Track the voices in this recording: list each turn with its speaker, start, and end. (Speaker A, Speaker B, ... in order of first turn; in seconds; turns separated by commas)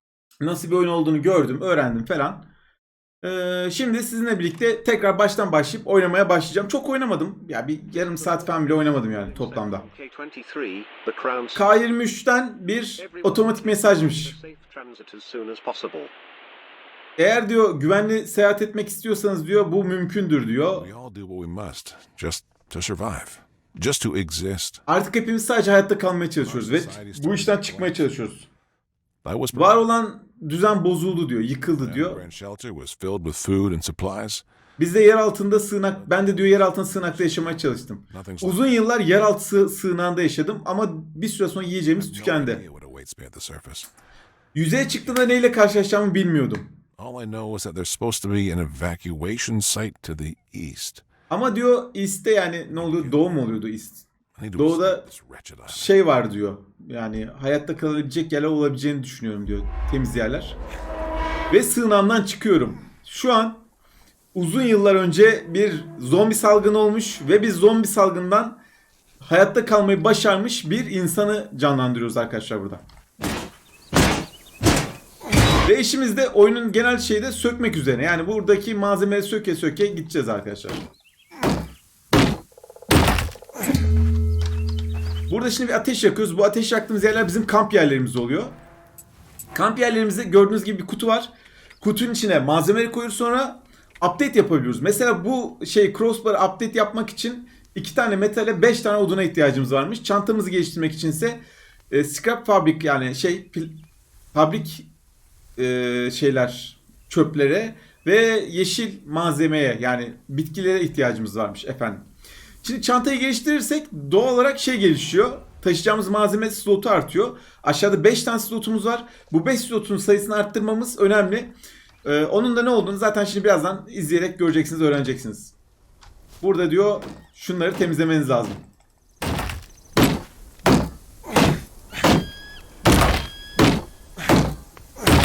Speaker A: 0.4-2.5, Speaker A: 3.2-9.9, Speaker B: 8.0-11.7, Speaker A: 11.5-14.3, Speaker B: 13.0-16.1, Speaker A: 17.2-20.9, Speaker C: 20.8-24.8, Speaker A: 24.9-28.5, Speaker C: 26.4-28.1, Speaker C: 29.2-29.8, Speaker A: 29.5-32.2, Speaker C: 31.8-34.5, Speaker A: 34.8-42.6, Speaker C: 35.9-38.7, Speaker C: 42.0-43.9, Speaker A: 44.5-46.7, Speaker C: 47.0-51.0, Speaker A: 51.3-55.0, Speaker C: 52.7-53.3, Speaker C: 54.4-55.9, Speaker A: 55.7-60.6, Speaker A: 61.5-63.6, Speaker A: 64.3-68.6, Speaker A: 69.2-72.8, Speaker A: 75.7-80.8, Speaker A: 85.3-88.5, Speaker A: 89.5-91.3, Speaker A: 91.8-103.8, Speaker A: 104.3-104.9, Speaker A: 105.6-112.1, Speaker A: 112.6-121.5, Speaker A: 122.0-125.5, Speaker A: 126.4-128.6